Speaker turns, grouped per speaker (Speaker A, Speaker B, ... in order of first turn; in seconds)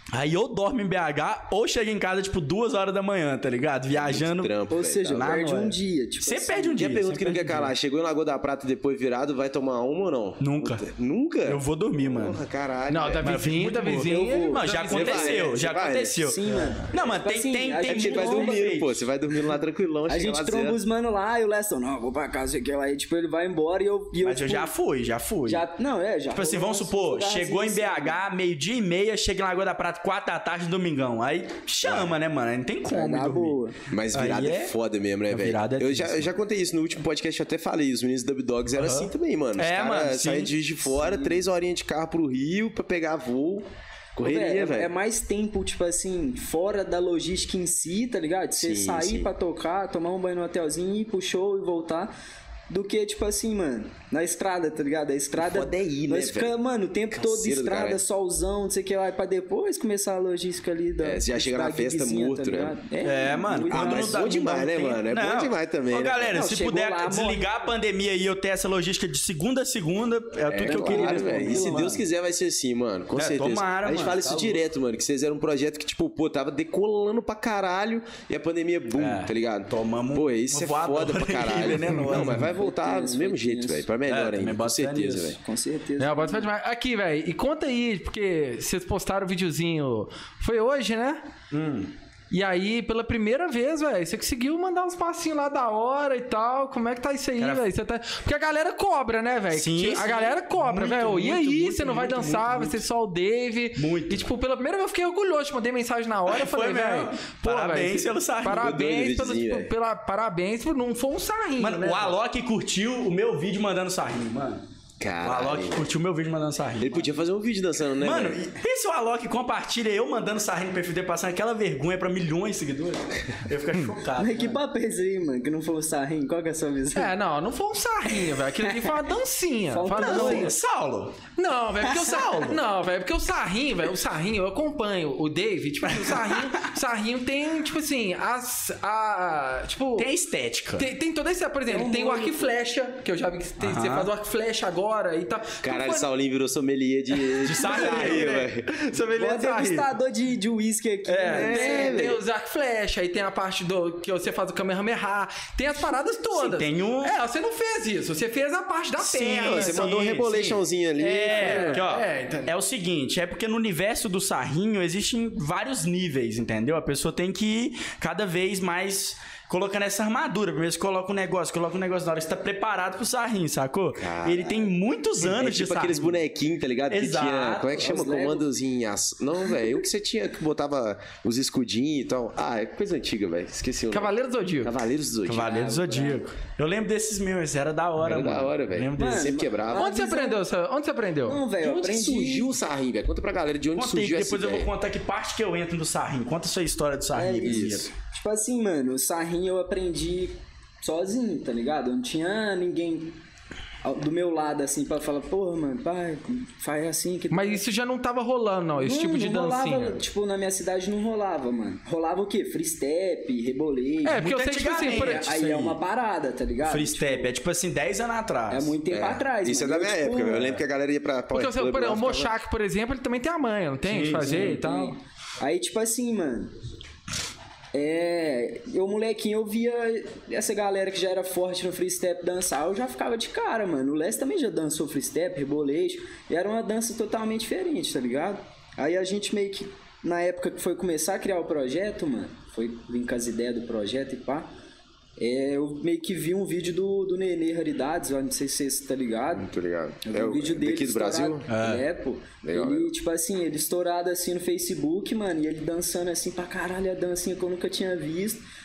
Speaker A: 0.1-4.6, 5.1-7.7, 10.4-10.8, 11.4-12.4, 13.2-16.4, 16.9-19.1, 24.2-25.6, 26.3-33.6, 34.1-34.7, 35.3-36.3, 38.8-40.6, 63.0-72.0, 73.2-74.7, 79.0-82.5, 84.1-85.4, 91.5-91.9, 97.4-97.7, 99.5-102.8, 103.8-104.3, 106.3-108.8, 111.6-114.6, 115.2-117.1, 118.0-124.6, 130.0-131.2, 131.9-132.6, 135.8-136.6, 140.0-140.9, 143.6-144.1, 147.4-148.4, 151.1-151.5, 156.3-157.2, 159.0-160.3, 161.0-176.2, 176.9-177.8, 185.3-189.4, 193.8-197.9, 214.2-215.6, 216.6-218.7, 223.9-224.6, 251.5-251.8
Speaker B: 3.9-5.4, 6.7-13.4, 14.9-16.7, 17.8-20.8, 31.8-32.1, 33.9-44.9, 48.5-49.3, 55.4-56.5, 57.1-58.0, 61.0-62.8, 63.7-66.5, 70.5-85.4, 108.5-109.7, 115.0-115.9, 116.8-118.4, 145.6-148.7, 151.3-152.2, 159.3-161.8, 174.0-185.6, 188.0-189.9, 191.6-194.7, 197.4-197.9, 218.9-222.3, 249.3-251.5, 252.4-252.9
Speaker C: 4.7-6.8, 13.9-14.7, 16.2-18.6, 20.1-24.7, 25.5-28.2, 32.9-33.8, 40.8-41.5, 44.2-52.1, 52.7-64.2, 66.3-67.7, 70.7-72.0, 82.3-83.9, 85.4-86.5, 124.2-127.1, 128.6-128.9, 129.7-130.5, 141.7-142.5, 147.8-148.5, 149.2-152.0, 177.8-178.5, 185.4-186.2, 189.0-190.4, 191.3-192.5, 197.1-203.2, 203.8-207.6, 208.8-214.2, 214.8-217.3, 218.5-220.6, 224.2-226.5, 227.7-244.5, 245.2-249.5, 250.0-258.4
Speaker D: 12.9-15.5, 86.0-91.2, 92.3-112.2, 126.9-130.5, 131.4-140.1, 140.8-146.1, 147.2-149.9, 151.4-160.6, 161.3-162.5, 183.9-184.7, 189.7-191.4, 207.3-210.0, 214.0-215.8, 221.3-225.0